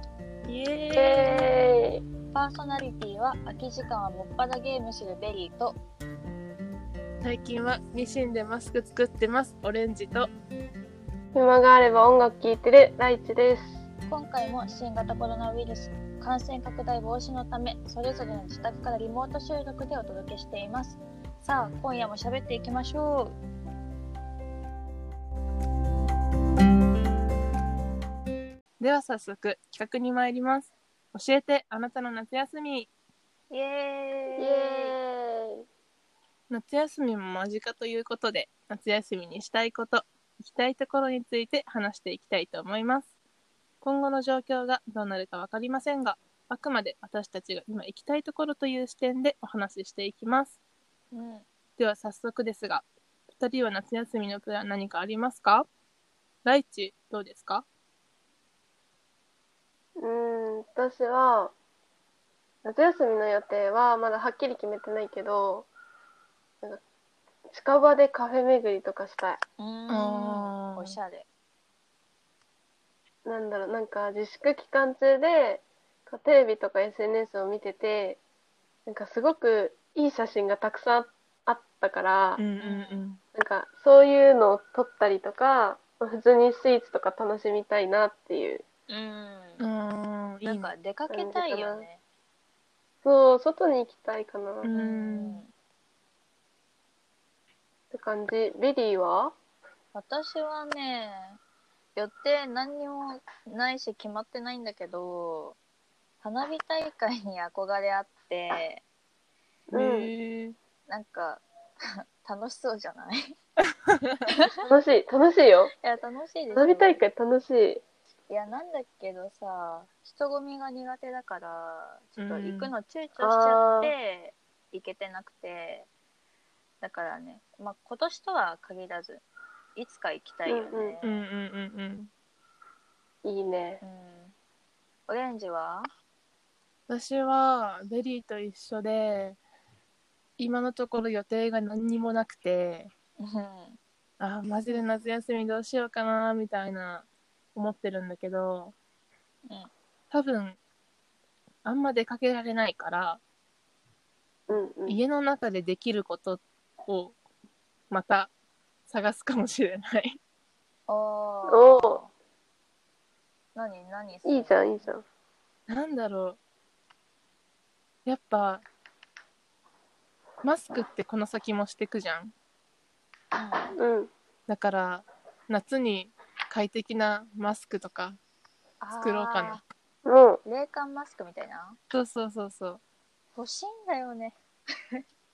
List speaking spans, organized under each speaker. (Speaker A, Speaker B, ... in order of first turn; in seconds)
Speaker A: 0.5-1.5, 7.2-10.3, 28.8-32.9, 36.5-43.1, 43.8-50.6, 51.8-55.7, 56.4-57.6, 69.9-71.0, 82.4-83.2, 89.6-90.7, 94.6-95.4, 109.7-110.5, 113.9-114.2, 122.2-122.7, 131.0-132.1, 136.9-139.4, 140.4-142.9, 144.2-148.7, 150.1-150.6, 151.6-153.2, 154.9-157.2, 157.9-158.3, 158.9-160.2, 165.7-166.4, 168.0-168.6, 170.4-172.3, 174.5-178.2, 178.9-179.6, 181.9-182.8
Speaker B: 0.9-2.0, 11.3-13.8, 34.4-35.6, 60.0-61.5, 62.6-65.7, 67.5-69.4, 73.2-78.2, 78.8-82.4, 83.3-88.6, 91.1-91.9, 93.0-94.7, 97.9-99.3, 109.7-110.1, 114.6-115.7, 116.5-117.8, 123.2-123.9, 130.4-130.9, 133.2-133.8, 154.5-155.0, 161.5-162.0, 164.2-165.0, 173.8-174.1, 180.0-180.4
Speaker C: 2.3-5.8, 14.1-23.4, 33.5-34.9, 51.1-51.5, 69.6-71.2, 82.6-83.0, 88.9-89.6, 90.4-92.0, 94.7-95.5, 99.9-101.4, 102.0-105.6, 106.2-108.8, 110.9-111.4, 112.2-113.3, 115.8-117.0, 118.3-125.9, 126.8-129.2, 129.8-131.2, 133.8-134.3, 135.1-135.9, 143.2-143.8, 160.9-162.1, 163.5-164.9, 173.3-173.7, 178.8-179.6, 180.4-181.8, 183.3-184.4